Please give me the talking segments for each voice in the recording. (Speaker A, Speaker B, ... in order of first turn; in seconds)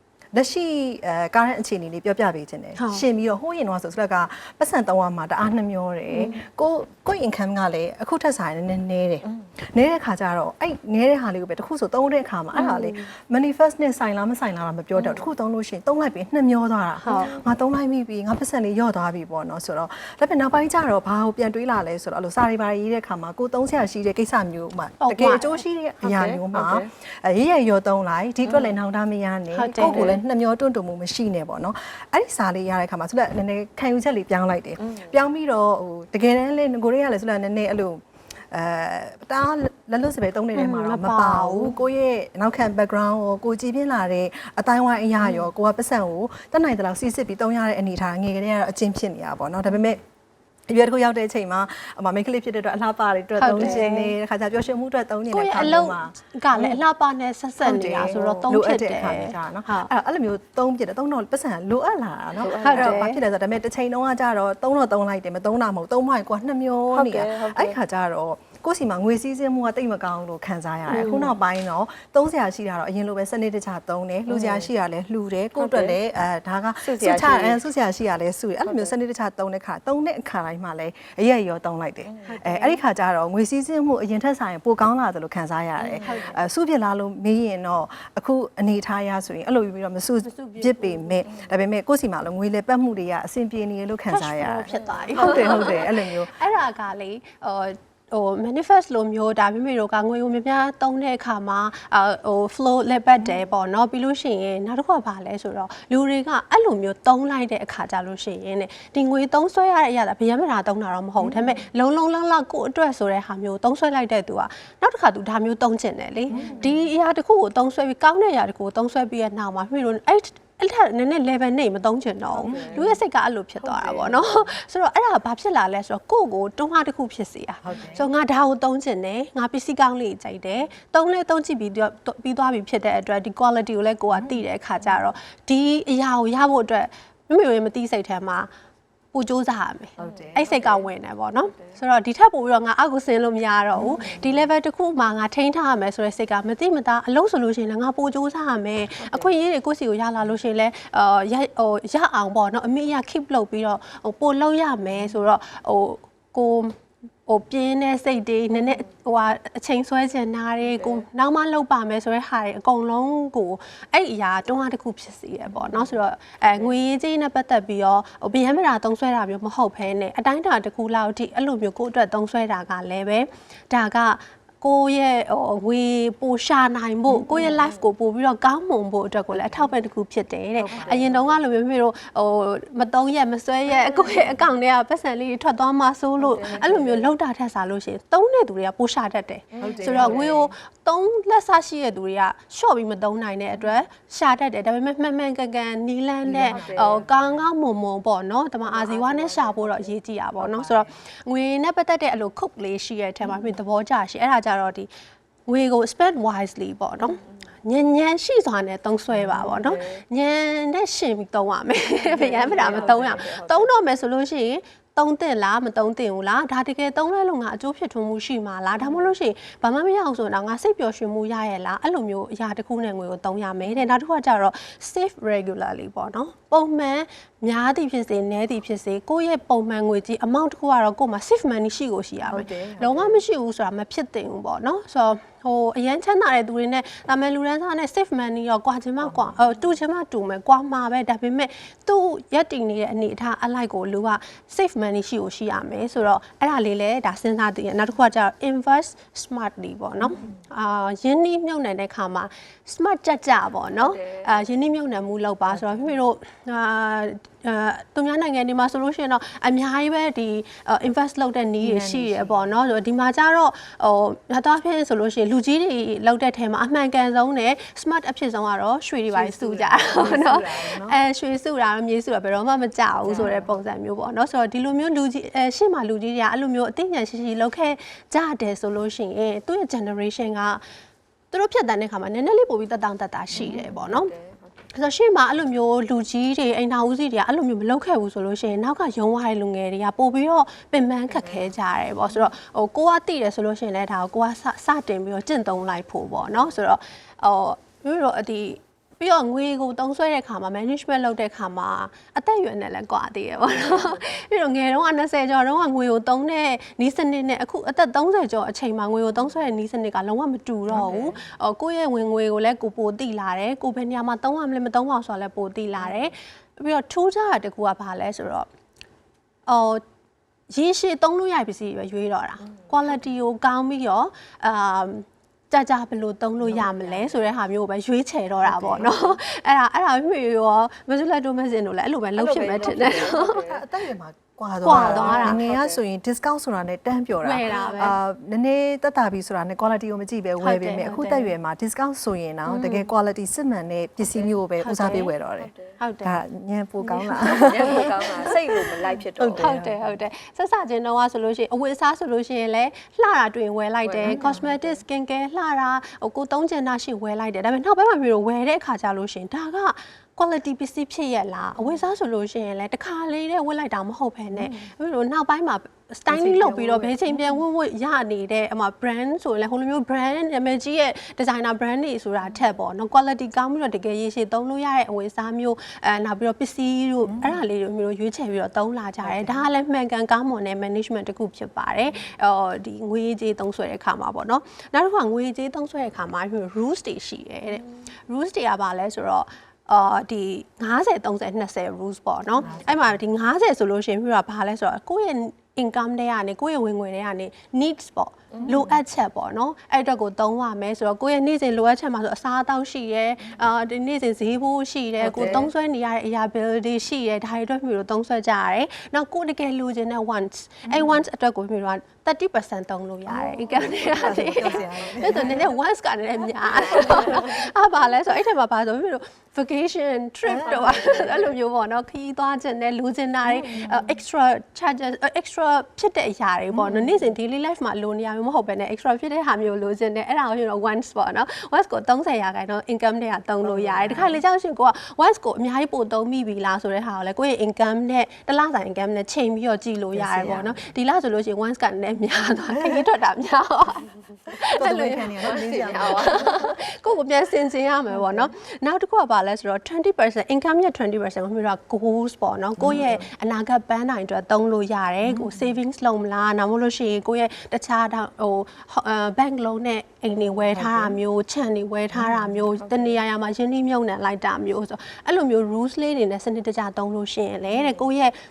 Speaker A: 0.3-50.0, 50.7-56.8, 57.6-96.3, 111.2-111.6, 116.3-116.8, 122.4-123.0, 127.6-128.1, 140.0-140.4, 143.7-144.3, 180.6-181.2, 189.6-190.4, 196.2-197.3, 200.4-200.9, 209.1-209.5, 232.2-233.1, 239.0-239.4, 255.5-255.9, 261.6-262.5, 269.1-271.0, 310.7-311.0, 326.4-327.2, 328.4-329.0, 332.6-345.5, 346.0-348.3, 349.1-350.0, 354.0-354.4, 366.1-367.4, 377.0-377.4, 379.0-379.4, 392.4-393.0, 398.4-398.8, 405.0-405.5, 410.6-411.0, 413.1-415.4, 420.2-421.1, 423.2-423.9, 426.5-427.0, 433.4-434.2, 439.9-440.6, 442.3-442.9, 444.5-446.4, 447.9-448.3, 452.6-453.1, 455.0-455.5, 460.2-461.0, 461.9-462.4
Speaker B: 2.8-3.0, 12.5-12.8, 17.0-17.4, 25.0-25.6, 29.5-30.2, 40.5-41.8, 53.4-54.1, 55.3-59.9, 62.6-63.2, 82.2-82.8, 86.0-86.4, 90.2-91.2, 94.1-138.5, 139.1-204.9, 205.5-280.6, 281.3-284.1, 284.7-318.5, 319.4-319.8, 320.5-333.4, 334.6-335.4, 337.2-338.0, 340.4-341.3, 342.4-342.9, 344.6-345.1, 345.8-346.2, 346.8-348.4, 349.4-468.1
Speaker C: 14.9-15.3, 17.1-17.4, 26.0-26.9, 28.4-28.7, 29.8-30.2, 34.8-35.1, 62.4-63.0, 66.9-67.8, 70.9-71.3, 74.3-74.7, 75.5-76.0, 76.8-77.6, 78.6-78.9, 82.0-82.3, 85.8-86.3, 94.7-95.6, 116.3-116.7, 122.3-122.8, 123.6-124.5, 140.0-140.9, 149.0-149.3, 160.8-161.0, 177.3-177.8, 180.8-181.2, 183.7-184.3, 186.2-187.1, 189.5-190.5, 196.4-197.1, 198.6-199.9, 209.5-210.0, 212.0-213.7, 218.8-219.1, 253.8-254.4, 273.0-273.6, 283.3-284.5, 291.1-291.5, 303.6-304.0, 310.8-311.1, 315.8-316.1, 332.1-333.6, 334.7-335.8, 337.5-337.8, 344.0-344.3, 345.4-345.8, 347.5-349.5, 353.8-354.8, 398.3-398.6, 405.0-405.5, 413.5-415.2, 416.5-417.3, 420.4-421.3, 445.3-446.7, 462.6-462.9